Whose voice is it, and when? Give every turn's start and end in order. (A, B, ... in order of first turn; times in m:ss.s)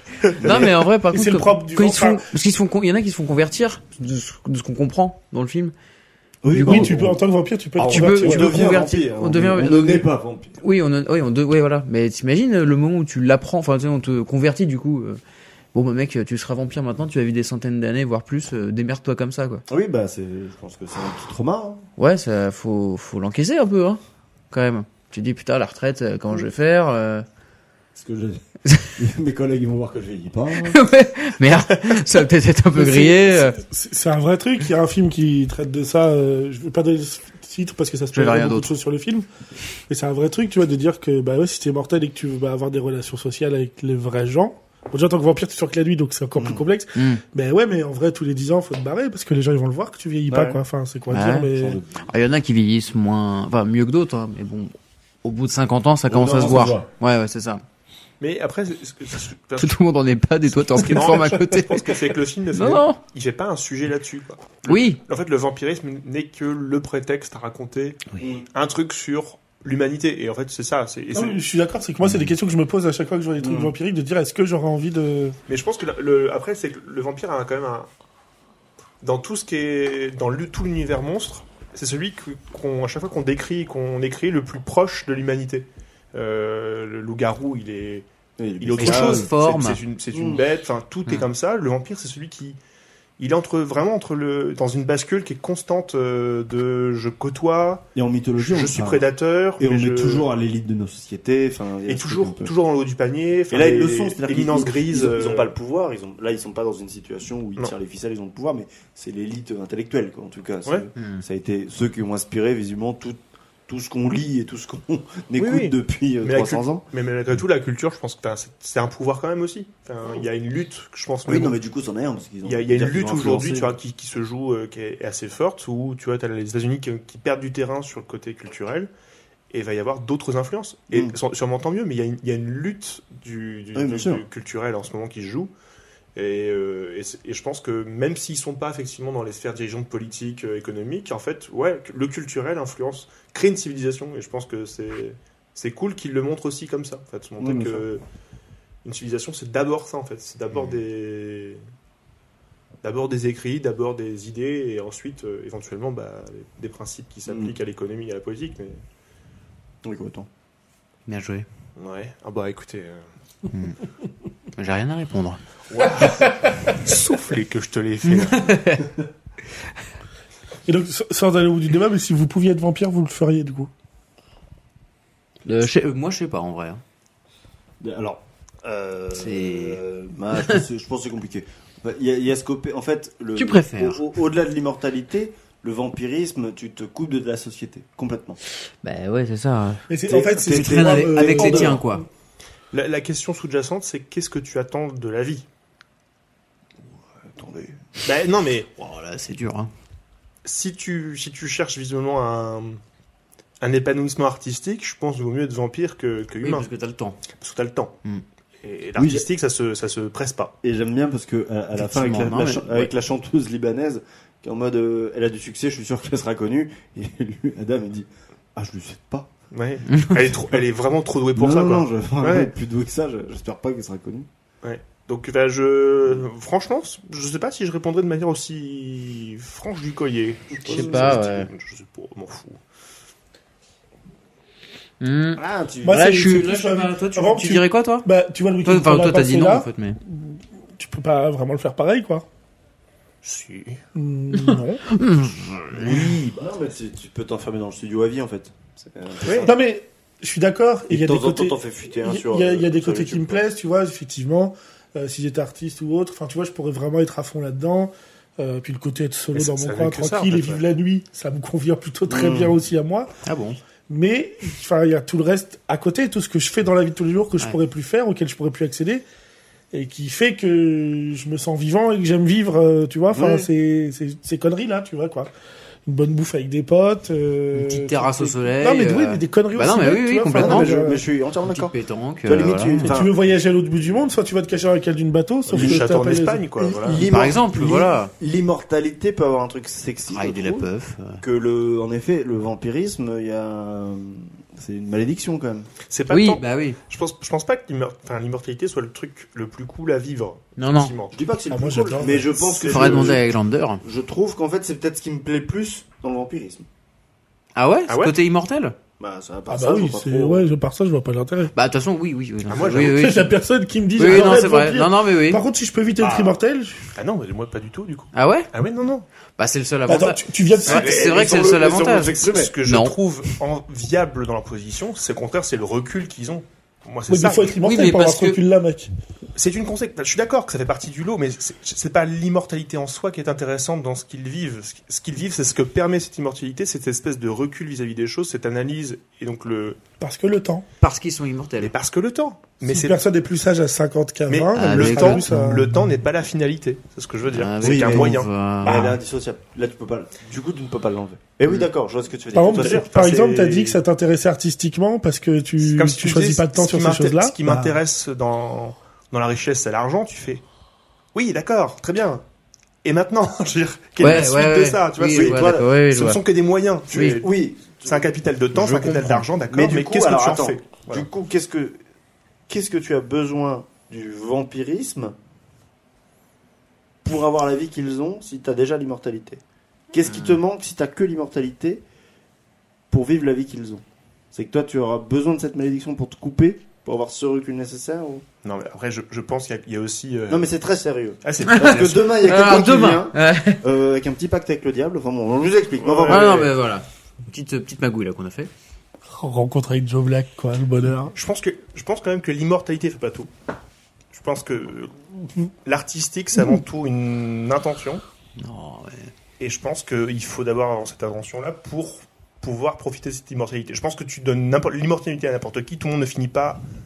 0:00.3-0:05.7 A
0:00.4-0:00.8 B
0:01.1-0:02.2 C
0:06.4-0:07.2 B
0:06.5-0:06.9 A
0:06.6-0:08.5 C
0:07.8-0:10.6 B
0:07.8-0:10.1 A
0:10.6-0:15.2 A
0:15.7-0:19.6 A
0:19.7-0:21.9 B
0:22.0-0:24.0 A
0:24.5-0:27.2 A
0:27.9-0:28.4 B
0:28.6-0:28.9 A
0:28.9-0:30.8 B
0:30.6-0:33.6 A
0:32.7-0:39.2 C
0:38.1-0:38.7 A
0:39.9-0:51.8 C
0:46.3-0:46.6 B
0:46.9-0:47.2 A
0:50.3-0:50.6 B
0:51.1-0:57.6 A
0:51.5-0:52.0 B
0:56.1-0:56.9 B
0:58.2-0:59.8 D
0:59.6-1:01.9 A
1:00.5-1:11.4 D
1:02.5-1:03.0 A
1:04.6-1:05.0 A
1:08.2-1:08.4 B
1:11.1-1:15.4 C
1:12.0-1:12.3 A
1:13.4-1:13.7 B
1:15.5-1:17.9 D
1:19.0-1:28.1 D
1:28.4-1:29.3 B
1:28.6-1:32.6 D
1:28.8-1:29.8 A
1:30.1-1:30.4 B
1:33.2-1:37.9 D
1:37.9-1:39.0 B
1:38.4-1:40.3 D
1:39.6-1:42.5 B
1:41.9-1:45.5 D
1:43.5-1:56.8 B
1:51.0-1:51.2 A
1:55.4-2:01.6 D
2:01.3-2:03.7 B
2:02.4-2:08.9 D
2:09.5-2:15.5 D
2:13.7-2:14.2 B
2:16.1-2:28.0 D
2:27.4-2:27.8 B
2:28.8-2:31.6 D
2:32.8-2:38.8 D
2:37.3-2:37.5 B
2:39.8-2:40.3 B
2:41.1-2:41.4 A
2:41.8-2:43.0 D
2:43.5-2:43.8 A
2:44.6-2:45.4 A
2:45.7-2:48.5 D
2:48.1-2:48.9 A
2:50.6-2:53.7 C
2:55.4-2:56.8 A
2:57.8-3:08.4 B
2:59.1-2:59.8 A
3:03.4-3:04.0 A
3:08.8-3:09.8 A
3:09.9-3:12.0 C
3:10.1-3:11.8 B
3:10.4-3:12.0 A
3:12.7-3:15.4 D
3:17.2-3:17.9 B
3:18.0-3:18.7 D
3:18.8-3:19.7 A
3:20.4-3:22.8 D
3:23.6-3:26.7 D
3:26.4-3:27.2 A
3:27.3-3:28.0 D
3:28.6-3:30.5 D
3:29.0-3:29.2 B
3:30.6-3:39.3 B
3:31.8-3:32.9 A
3:39.5-3:42.5 D
3:39.9-3:40.2 A
3:41.3-3:44.3 B
3:44.6-3:52.6 D
3:50.6-3:51.2 B
3:50.6-3:51.5 A
3:55.0-3:58.1 A
3:55.4-3:56.1 B
3:55.8-4:02.2 C
3:58.6-4:00.0 A
4:03.2-4:03.8 D
4:03.9-4:04.8 C
4:04.3-4:06.2 A
4:05.8-4:09.6 B
4:09.2-4:09.5 D
4:09.4-4:23.1 C
4:10.9-4:13.4 B
4:19.3-4:20.6 D
4:22.1-4:22.6 B
4:23.2-4:23.6 A
4:23.9-4:29.0 C
4:29.7-4:35.3 C
4:33.1-4:33.5 B
4:35.8-4:41.0 C
4:37.5-4:40.7 A
4:40.3-4:41.7 B
4:41.4-4:42.9 A
4:42.2-4:43.2 B
4:42.8-4:46.5 C
4:45.5-4:47.0 D
4:45.5-4:45.9 B
4:46.6-4:50.7 B
4:47.0-4:48.1 A
4:50.1-4:51.2 A
4:51.2-4:55.7 B
4:55.9-5:01.2 D
4:56.1-4:56.8 A
5:00.6-5:00.9 A
5:01.1-5:03.2 B
5:01.5-5:02.3 C
5:02.4-5:03.1 D
5:02.6-5:03.8 A
5:03.8-5:06.7 B
5:07.5-5:08.8 A
5:07.9-5:08.1 D
5:09.0-5:10.5 B
5:09.5-5:11.5 C
5:11.5-5:13.3 A
5:12.5-5:13.0 D
5:12.8-5:16.9 C
5:14.0-5:15.4 A
5:16.0-5:16.3 D
5:16.9-5:19.0 D
5:18.1-5:18.5 A
5:19.4-5:23.0 A
5:19.9-5:21.0 C
5:20.6-5:22.5 B
5:20.7-5:27.6 D
5:27.1-5:28.9 C
5:27.6-5:28.4 A
5:29.4-5:39.8 D
5:40.0-5:40.6 C
5:40.8-5:41.7 A
5:41.6-5:43.0 D
5:42.6-5:45.7 C
5:44.3-5:48.8 D
5:44.5-5:45.6 A
5:47.3-5:49.0 A
5:47.6-5:53.4 B
5:52.3-5:57.6 C
5:52.5-5:53.8 D
5:55.6-6:00.4 D
6:01.1-6:02.2 D
6:02.8-6:11.1 D
6:04.0-6:06.2 A
6:05.0-6:05.7 B
6:06.9-6:07.2 A
6:07.0-6:11.8 B
6:12.5-6:15.1 B
6:17.0-6:19.4 B
6:19.9-6:21.8 B
6:22.9-6:23.8 B
6:24.3-6:28.2 B
6:28.4-6:30.5 D
6:30.3-6:36.5 B
6:31.2-6:32.1 D
6:31.5-6:33.6 A
6:35.8-6:36.5 D
6:36.1-6:38.5 A
6:39.1-6:41.1 C
6:41.1-6:43.3 D
6:44.1-6:45.0 D
6:45.6-6:48.0 D
6:48.4-6:49.1 A
6:49.4-6:56.6 D